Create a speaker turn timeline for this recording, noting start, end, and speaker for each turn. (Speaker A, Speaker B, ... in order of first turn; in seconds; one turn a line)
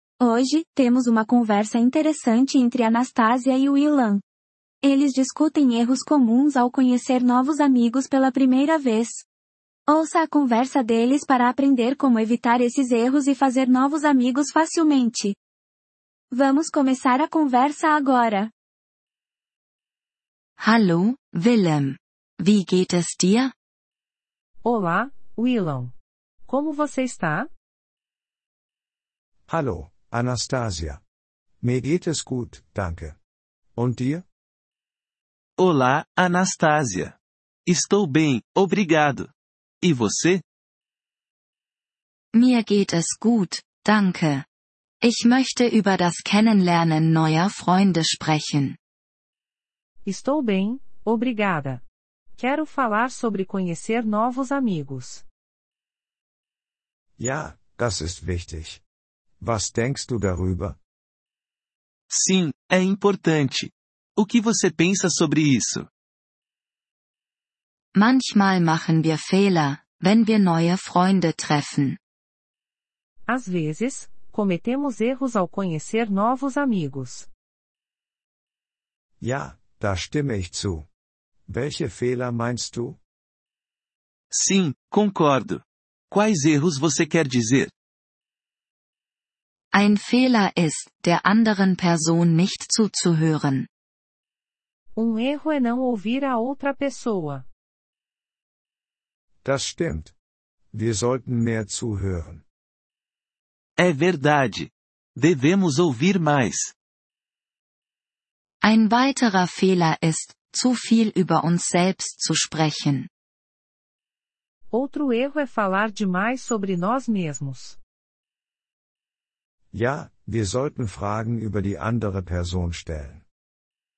Speaker A: 0.2-4.2
Speaker A: 4.8-9.2
Speaker A: 9.9-15.4
Speaker A: 16.3-18.5
Speaker B: 20.6-23.5
Speaker C: 24.6-25.9
Speaker C: 26.5-27.5
Speaker D: 29.5-31.0
Speaker D: 31.6-33.2
Speaker D: 33.8-34.3
Speaker E: 35.6-37.2
Speaker E: 37.7-39.3
Speaker E: 39.8-40.4
Speaker B: 42.3-44.5
Speaker B: 45.0-48.8
Speaker C: 50.0-51.8
Speaker C: 52.4-55.2
Speaker D: 57.2-58.8
Speaker D: 59.4-60.8
Speaker E: 62.1-65.9
Speaker B: 67.9-72.0
Speaker C: 73.3-77.3
Speaker D: 79.2-80.9
Speaker D: 81.5-83.0
Speaker E: 84.3-87.7
Speaker B: 89.7-93.7
Speaker C: 94.9-97.5
Speaker D: 99.4-100.1
Speaker D: 100.7-102.4
Speaker E: 103.8-106.7
Speaker B: 108.6-113.1
Speaker C: 114.7-117.8
Speaker D: 119.7-123.2